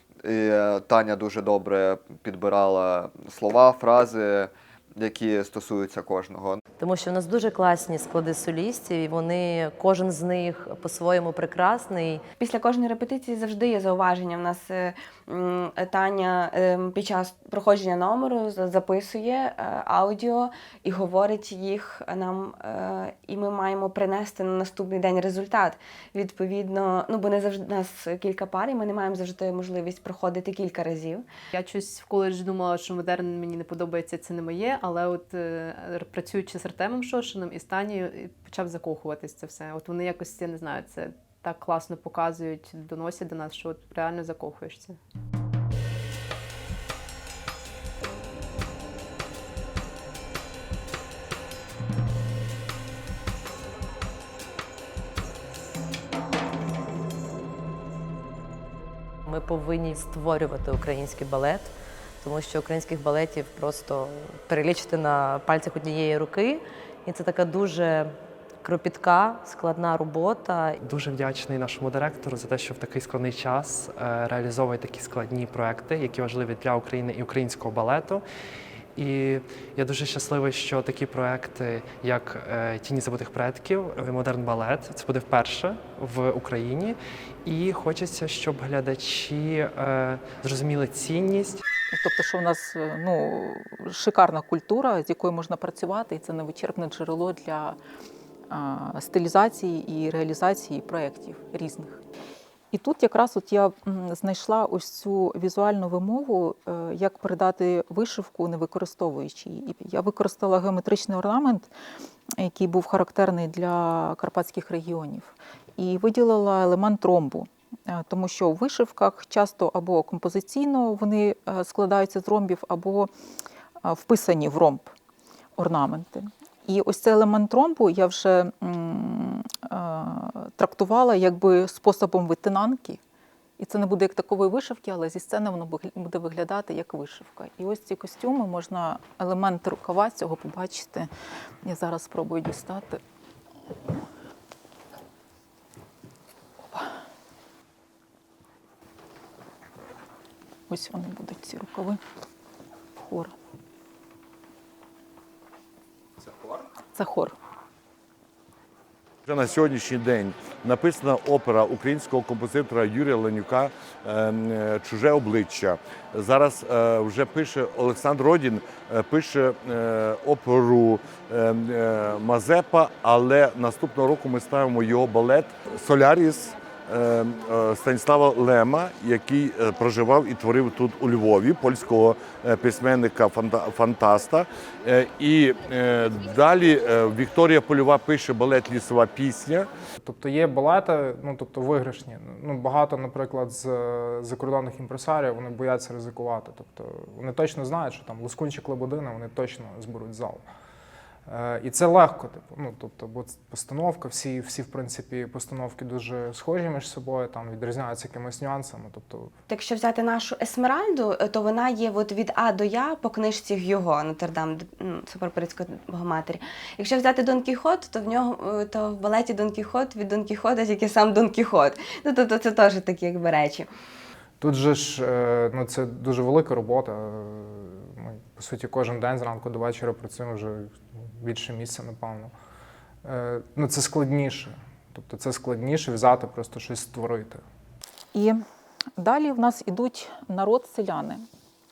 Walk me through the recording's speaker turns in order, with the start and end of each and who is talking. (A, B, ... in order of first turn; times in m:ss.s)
0:00.2-0:06.6 A
0:06.8-0:12.2 B
0:12.4-0:31.2 C
0:31.5-0:45.0 D
0:59.2-1:10.8 B
1:10.8-1:18.2 E
1:19.0-1:31.6 E
1:31.9-1:37.8 F
1:38.5-1:42.0 F
1:42.7-1:51.7 F
1:52.3-2:03.1 F
2:03.8-2:04.9 F
2:05.6-2:13.0 F
2:13.6-2:21.1 F
2:21.6-2:23.0 F
2:30.7-2:32.0 F
2:33.0-2:33.3 F
2:36.9-2:37.3 F
2:39.2-3:09.7 G
3:10.0-3:20.4 H
3:21.3-3:29.3 H
3:29.5-3:43.7 C
3:44.4-3:52.3 H
3:53.0-3:57.4 H
3:58.1-3:58.4 F
3:59.0-4:01.2 F